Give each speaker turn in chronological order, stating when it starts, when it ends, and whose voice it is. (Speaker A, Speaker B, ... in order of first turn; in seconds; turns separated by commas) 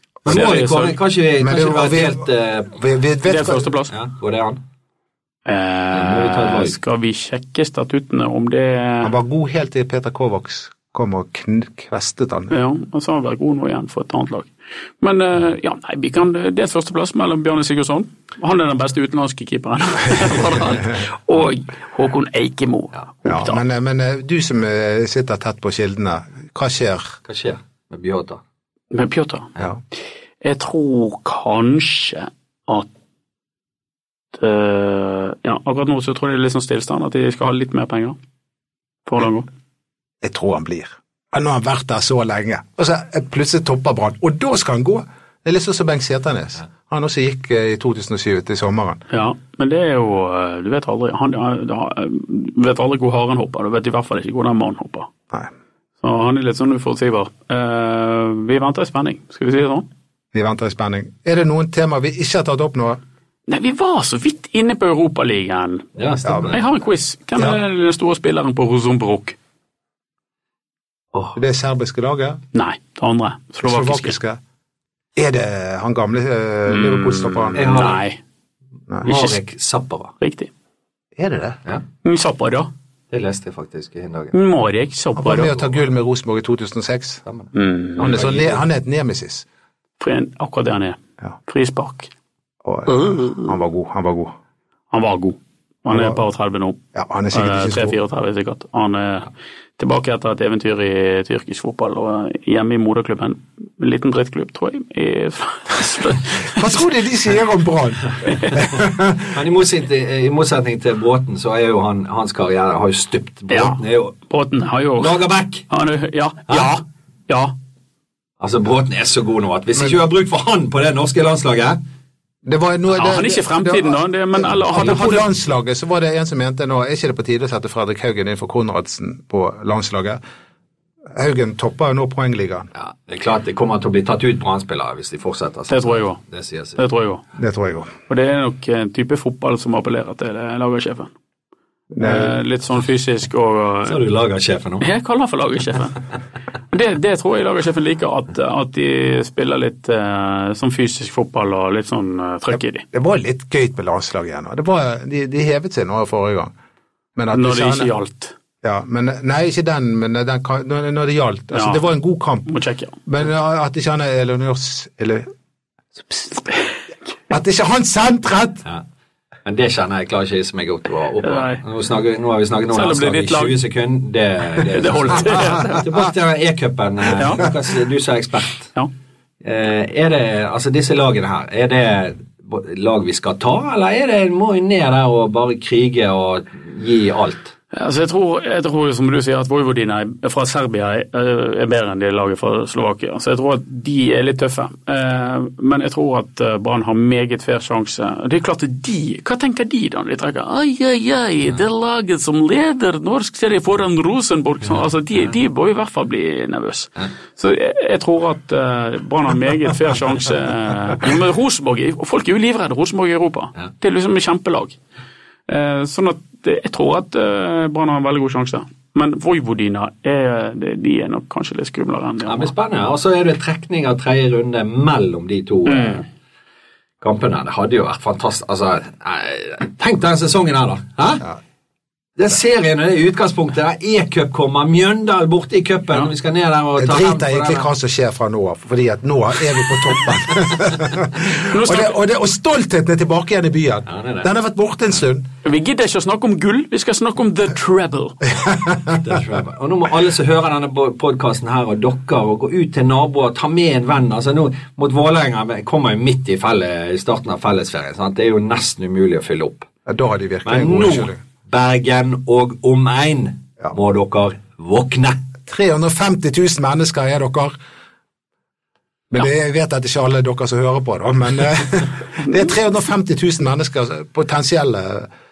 Speaker A: 0.3-2.8, Speaker B: 0.3-1.0, Speaker C: 1.4-3.6, Speaker B: 3.2-3.9, Speaker A: 3.9-4.6, Speaker B: 5.5-9.1, Speaker A: 5.9-6.8, Speaker C: 9.0-12.5, Speaker B: 12.5-23.6, Speaker C: 23.2-27.2, Speaker A: 27.3-28.4, Speaker B: 28.9-29.5, Speaker B: 30.4-32.9, Speaker B: 34.3-38.2, Speaker B: 39.1-39.5, Speaker C: 40.2-49.0, Speaker B: 49.1-55.1, Speaker B: 56.0-59.9, Speaker C: 60.3-63.0, Speaker B: 63.5-65.8, Speaker A: 66.0-66.7, Speaker C: 66.2-66.5, Speaker B: 66.5-69.4, Speaker C: 71.3-72.4, Speaker B: 72.5-74.2, Speaker C: 73.6-74.4, Speaker C: 75.2-77.9, Speaker B: 76.7-78.2, Speaker A: 77.5-78.0, Speaker A: 79.0-80.1, Speaker B: 79.0-79.4, Speaker B: 80.2-80.5, Speaker C: 81.2-81.6, Speaker B: 82.0-82.7, Speaker A: 83.1-84.3, Speaker B: 84.3-85.5, Speaker C: 85.2-87.2, Speaker A: 87.3-88.6, Speaker B: 87.5-88.2, Speaker C: 88.0-89.4, Speaker B: 90.0-92.1, Speaker C: 92.6-94.3, Speaker B: 94.9-96.8, Speaker C: 95.9-96.2, Speaker C: 96.9-98.0, Speaker B: 97.3-106.6, Speaker C: 106.5-109.4, Speaker A: 109.3-114.2, Speaker B: 113.5-115.1, Speaker A: 115.0-115.7, Speaker B: 115.7-117.5, Speaker A: 118.4-121.8, Speaker C: 122.4-130.2, Speaker B: 122.9-125.3, Speaker C: 131.1-132.7, Speaker A: 132.8-136.8, Speaker B: 135.7-136.2, Speaker B: 136.8-137.2, Speaker C: 137.4-137.9, Speaker B: 138.1-141.1, Speaker C: 141.9-142.3, Speaker B: 142.0-144.0, Speaker A: 143.9-144.8, Speaker B: 144.8-146.0, Speaker B: 146.7-152.8, Speaker C: 152.5-156.5, Speaker C: 157.2-157.9, Speaker B: 157.3-158.3, Speaker C: 158.6-162.5, Speaker B: 161.5-161.8, Speaker B: 162.5-163.0, Speaker C: 163.1-165.3, Speaker C: 167.3-168.7, Speaker A: 169.5-178.7, Speaker B: 171.2-171.6, Speaker B: 172.7-173.6, Speaker B: 174.8-175.9, Speaker B: 177.2-177.4, Speaker A: 179.4-187.5, Speaker B: 187.7-214.8, Speaker B: 215.5-222.5, Speaker A: 222.3-226.0, Speaker B: 225.7-226.0, Speaker A: 227.0-231.3, Speaker A: 232.2-237.7, Speaker C: 236.8-245.3, Speaker B: 241.5-241.9, Speaker A: 243.9-244.3, Speaker B: 245.4-248.2, Speaker C: 248.5-248.9, Speaker A: 248.9-259.7, Speaker C: 259.9-261.2, Speaker A: 260.5-265.2, Speaker C: 265.5-267.6, Speaker C: 269.1-275.1